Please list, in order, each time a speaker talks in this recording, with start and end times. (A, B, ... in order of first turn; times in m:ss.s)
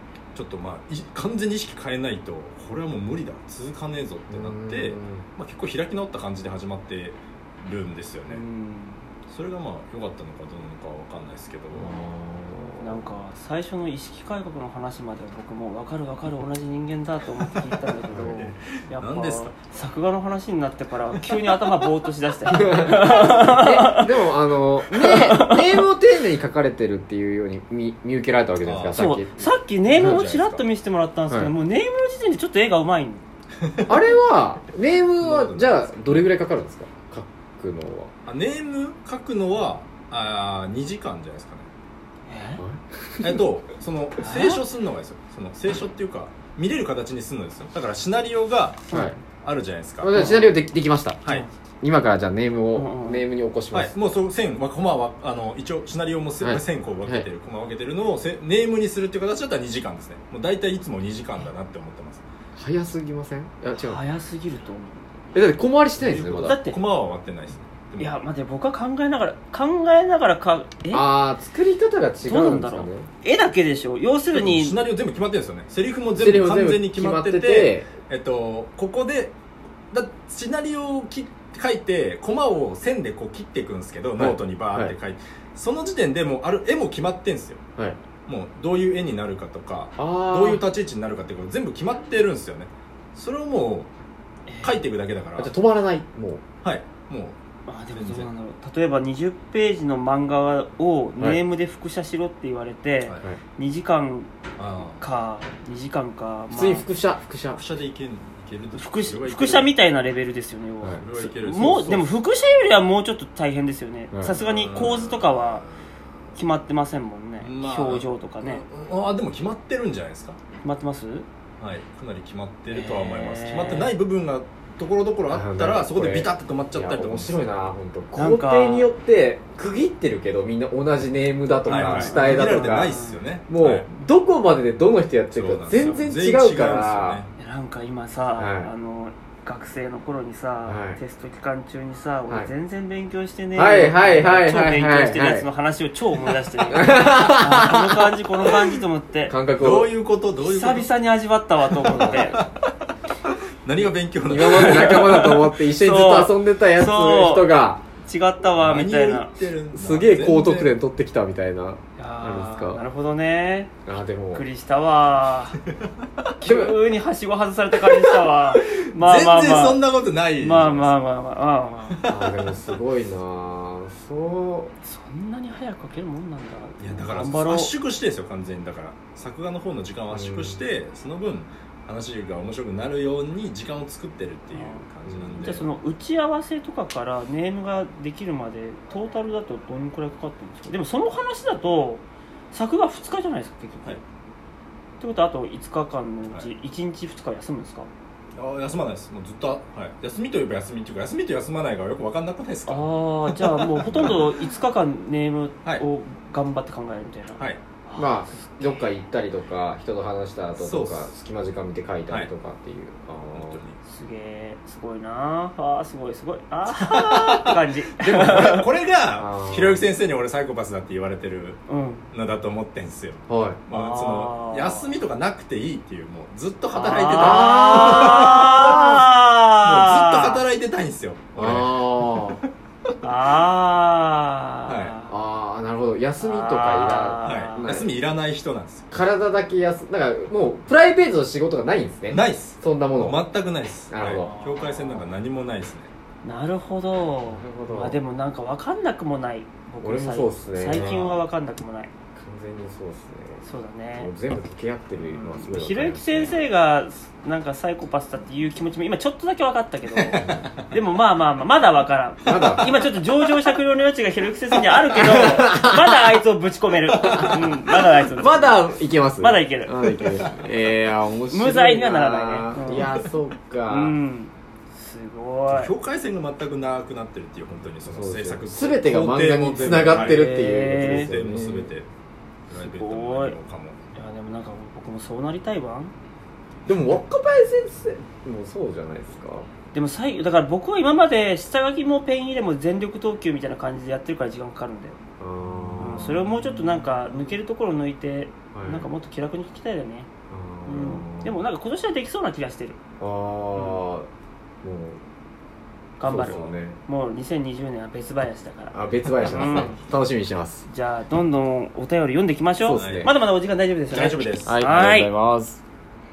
0:00.3-0:08.4 A
0:04.3-0:05.2 B
0:08.3-0:09.0 C
0:09.3-0:12.0 A
0:11.7-0:13.1 B
0:12.8-0:24.1 C
0:17.4-0:19.5 A
0:18.1-0:18.5 B
0:22.5-0:29.3 B
0:24.9-0:25.8 C
0:28.6-0:29.1 A
0:28.9-0:33.2 C
0:29.9-0:30.2 B
0:29.9-0:30.6 A
0:31.3-0:31.5 B
0:33.7-0:34.0 A
0:33.9-0:38.1 B
0:35.2-0:36.2 A
0:38.2-0:41.7 A
0:42.3-0:42.6 C
0:42.6-0:43.4 B
0:43.2-0:50.3 A
0:44.2-0:44.6 C
0:48.9-0:49.2 B
0:50.0-0:51.2 B
0:50.1-0:50.6 C
0:51.8-0:53.9 B
0:52.7-0:53.3 C
0:53.7-1:02.2 A
0:56.4-0:57.3 B
1:02.5-1:04.0 B
1:03.7-1:05.0 C
1:05.3-1:06.6 B
1:06.0-1:08.2 A
1:06.2-1:06.8 C
1:08.0-1:11.0 C
1:10.9-1:13.1 B
1:12.2-1:14.8 C
1:14.3-1:19.4 A
1:16.1-1:17.9 B
1:19.9-1:27.6 A
1:24.2-1:24.9 B
1:28.3-1:33.9 A
1:30.0-1:30.6 B
1:34.5-1:34.8 C
1:34.6-1:35.5 A
1:35.4-1:36.4 B
1:36.6-1:37.4 A
1:37.7-1:44.3 C
1:37.9-1:38.3 A
1:44.6-1:45.0 A
1:44.9-1:46.9 C
1:46.5-1:47.6 B
1:47.5-1:49.7 A
1:48.7-1:55.7 C
1:50.9-1:52.2 A
1:54.1-1:54.4 B
1:54.4-1:56.3 A
1:56.3-1:58.6 C
1:57.4-2:00.4 A
2:00.6-2:01.2 C
2:01.6-2:07.7 A
2:02.7-2:03.9 C
2:05.3-2:17.2 B
2:08.1-2:08.9 C
2:11.7-2:13.2 C
2:11.7-2:13.9 A
2:15.3-2:17.3 A
2:17.4-2:29.4 C
2:18.4-2:18.7 B
2:20.6-2:21.0 B
2:23.5-2:25.4 B
2:26.7-2:28.2 B
2:29.3-2:29.9 B
2:29.5-2:30.9 A
2:30.4-2:32.4 C
2:31.8-2:32.4 B
2:31.8-2:35.5 A
2:34.2-2:37.8 B
2:35.5-2:39.3 C
2:38.6-2:40.8 A
2:39.7-2:42.8 B
2:42.0-2:43.7 C
2:43.8-2:44.4 B
2:44.3-2:45.6 C
2:46.4-2:49.8 C
2:46.4-2:46.8 B
2:47.9-2:51.0 A
2:50.4-2:52.0 C
2:51.9-2:52.6 A
2:52.1-2:54.7 B
2:54.8-2:57.7 C
2:56.8-3:05.7 A
3:00.1-3:00.6 B
3:04.5-3:04.8 C
3:05.1-3:05.4 B
3:05.4-3:14.0 C
3:15.0-3:17.9 C
3:18.4-3:24.4 A
3:22.7-3:28.8 C
3:28.0-3:33.6 B
3:30.6-3:31.1 A
3:33.3-3:33.8 A
3:33.8-3:38.6 C
3:36.7-3:41.6 A
3:39.1-3:39.9 B
3:41.7-3:42.0 C
3:42.1-3:52.4 A
3:43.3-3:43.6 B
3:43.7-3:44.9 C
3:46.7-3:50.4 C
3:47.1-3:48.3 B
3:51.4-3:52.4 B
3:53.0-3:55.1 C
3:54.7-3:54.9 A
3:55.1-3:57.9 B
3:56.2-3:57.7 C
3:57.2-3:58.9 A
3:58.9-4:03.2 B
4:02.1-4:05.9 A
4:03.9-4:04.3 B
4:04.1-4:05.0 C
4:06.2-4:11.9 C
4:07.2-4:08.0 B
4:09.8-4:11.0 B
4:10.6-4:11.2 A
4:12.2-4:16.4 B
4:13.4-4:14.1 C
4:15.0-4:15.3 A
4:15.3-4:29.8 C
4:19.9-4:20.7 A
4:20.2-4:20.5 B
4:22.2-4:22.7 B
4:22.3-4:22.6 A
4:24.9-4:26.2 B
4:26.9-4:27.7 A
4:27.0-4:27.3 B
4:28.1-4:34.0 B
4:31.3-4:33.0 C
4:32.7-4:33.0 A
4:33.7-4:35.7 C
4:35.5-4:41.9 A
4:37.8-4:41.7 B
4:39.9-4:41.1 C
4:42.5-4:43.8 A
4:42.5-4:43.4 C
4:43.9-4:45.9 C
4:46.6-4:49.5 B
4:49.7-4:55.0 C
4:55.2-4:56.4 B
4:55.8-5:00.1 C
4:58.5-4:58.9 B
5:00.3-5:01.4 B
5:00.6-5:02.8 C
5:03.0-5:04.1 B
5:04.6-5:05.0 B
5:06.0-5:09.8 C
5:06.0-5:06.8 B
5:08.7-5:10.6 B
5:09.3-5:09.7 A
5:10.7-5:15.1 C
5:12.6-5:13.1 B
5:12.7-5:13.2 A
5:13.9-5:14.6 A
5:14.4-5:15.6 B